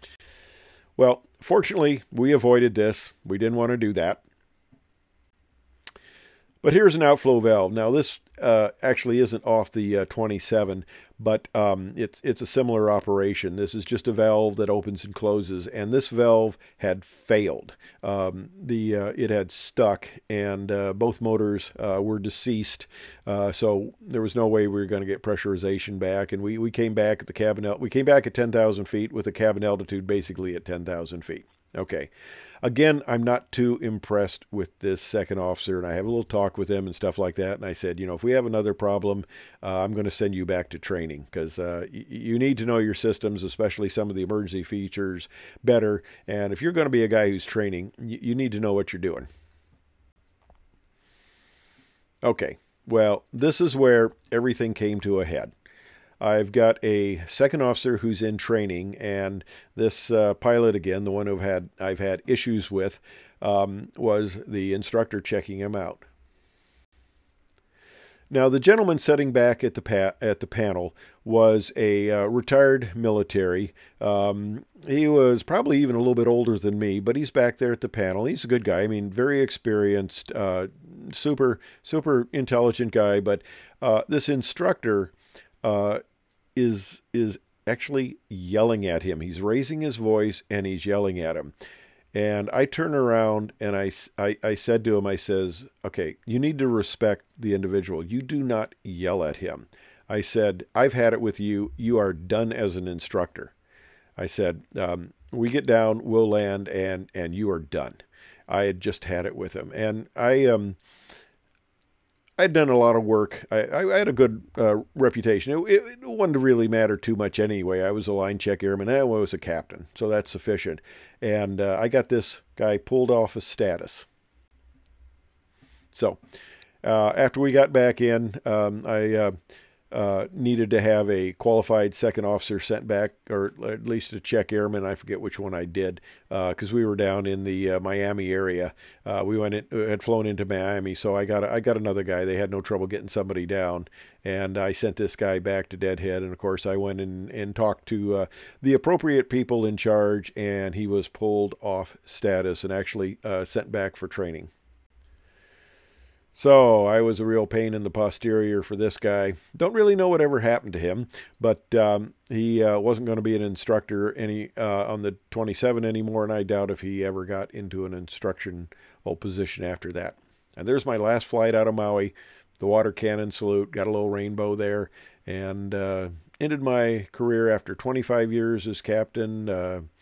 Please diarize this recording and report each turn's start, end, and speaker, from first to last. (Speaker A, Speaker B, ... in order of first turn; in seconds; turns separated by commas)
Speaker A: 1.0-4.2, Speaker A: 6.6-32.1, Speaker A: 32.6-49.3, Speaker A: 52.2-55.5, Speaker A: 56.2-66.0, Speaker A: 68.3-86.0, Speaker A: 86.6-91.5, Speaker A: 92.1-103.5, Speaker A: 104.2-110.8, Speaker A: 112.4-124.1, Speaker A: 125.9-126.2, Speaker A: 126.8-129.3, Speaker A: 129.9-154.5, Speaker A: 156.4-179.9